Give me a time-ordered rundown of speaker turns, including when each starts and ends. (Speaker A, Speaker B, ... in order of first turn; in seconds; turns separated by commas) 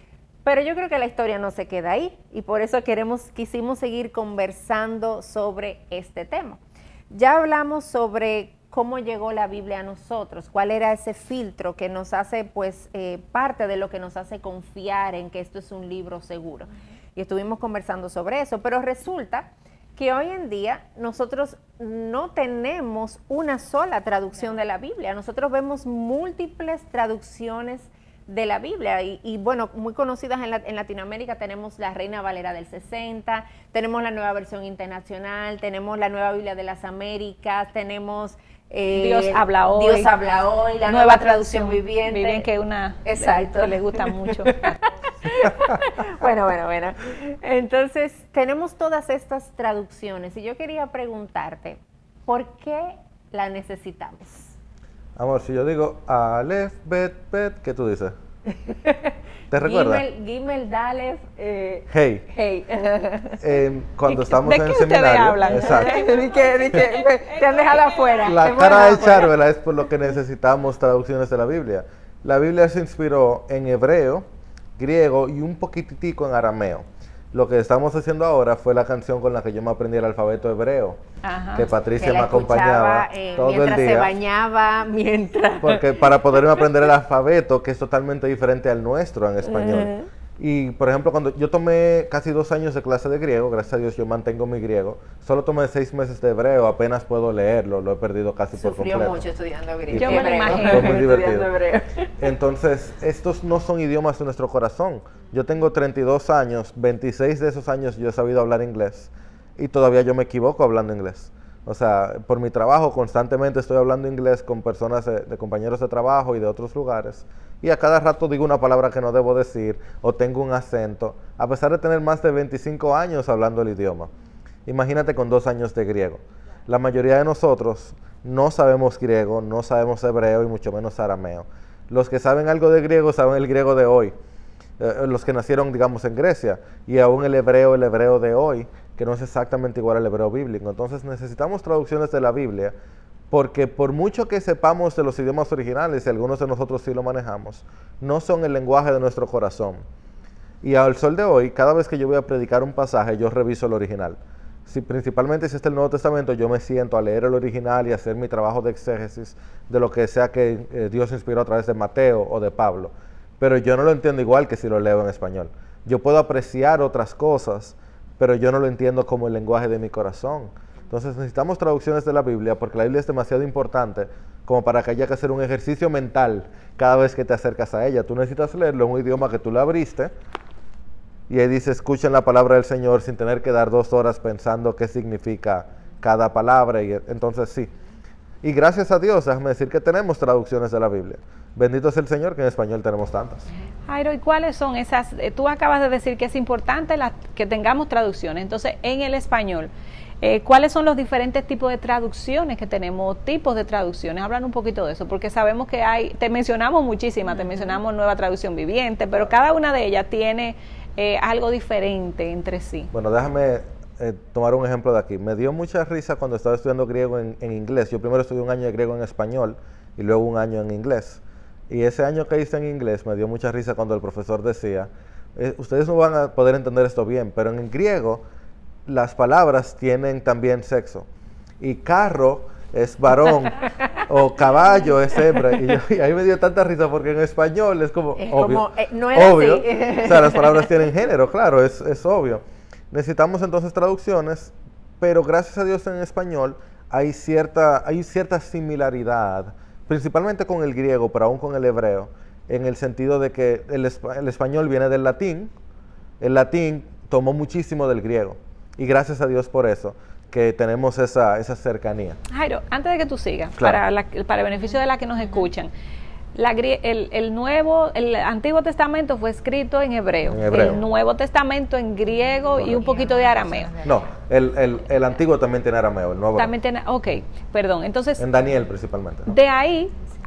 Speaker A: 0.5-6.6, Speaker A: 7.1-42.5, Speaker B: 38.9-40.1, Speaker B: 40.9-44.9, Speaker A: 43.0-44.7, Speaker A: 45.2-54.5, Speaker C: 55.2-58.1, Speaker A: 58.5-63.4, Speaker C: 59.5-60.0, Speaker C: 61.9-62.3, Speaker C: 63.4-66.0, Speaker B: 64.1-68.2, Speaker A: 65.5-69.3, Speaker C: 68.2-74.2, Speaker C: 74.8-81.0, Speaker B: 81.2-81.7, Speaker C: 81.5-84.1, Speaker A: 82.0-86.4, Speaker C: 85.6-99.2, Speaker A: 89.5-90.1, Speaker A: 98.5-102.1, Speaker C: 99.9-101.5, Speaker B: 99.9-101.0, Speaker C: 102.2-124.1, Speaker C: 124.7-134.1, Speaker C: 134.8-142.8, Speaker C: 143.3-149.8, Speaker C: 150.6-180.1, Speaker C: 181.3-187.7, Speaker C: 188.4-193.5, Speaker B: 193.9-199.7, Speaker B: 200.2-212.9, Speaker C: 212.9-228.2, Speaker C: 228.9-231.1, Speaker C: 231.6-255.5, Speaker A: 238.2-240.7, Speaker C: 256.2-262.2, Speaker B: 262.3-265.7, Speaker B: 266.4-273.7, Speaker C: 270.3-270.8, Speaker A: 272.5-274.1, Speaker C: 273.9-276.5, Speaker B: 276.4-278.2, Speaker C: 278.2-279.4, Speaker B: 279.3-279.9